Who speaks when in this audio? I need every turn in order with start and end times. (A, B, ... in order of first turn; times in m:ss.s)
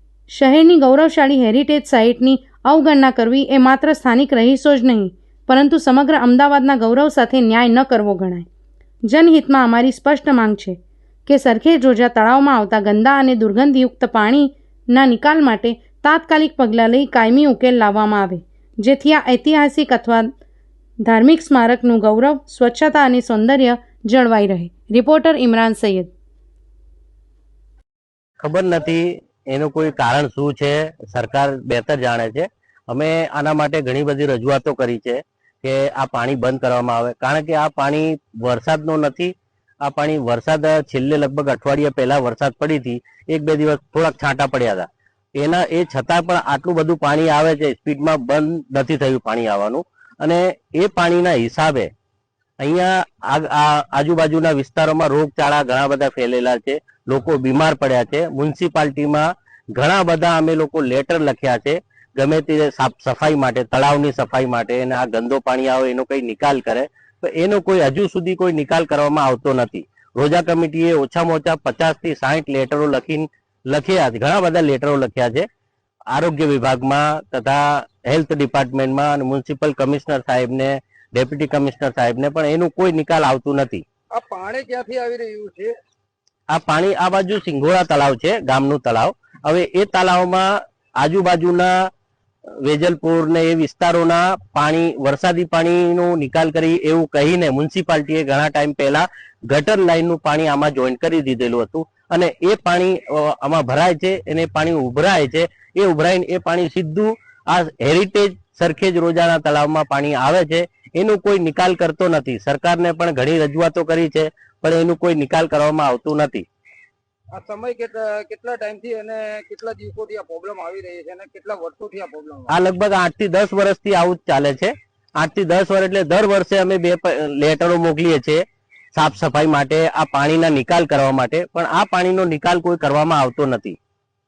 0:00.3-0:08.5 A
0:09.1-0:20.3 A
0:21.0-0:26.1 A
0:28.4-0:51.9 B
0:52.6-1:15.4 B
1:16.1-1:23.8 B
1:24.1-1:25.7 C
1:26.5-1:31.7 B
1:32.6-1:56.4 B
1:57.3-2:02.5 C
2:02.5-2:08.4 B
2:08.9-2:13.8 B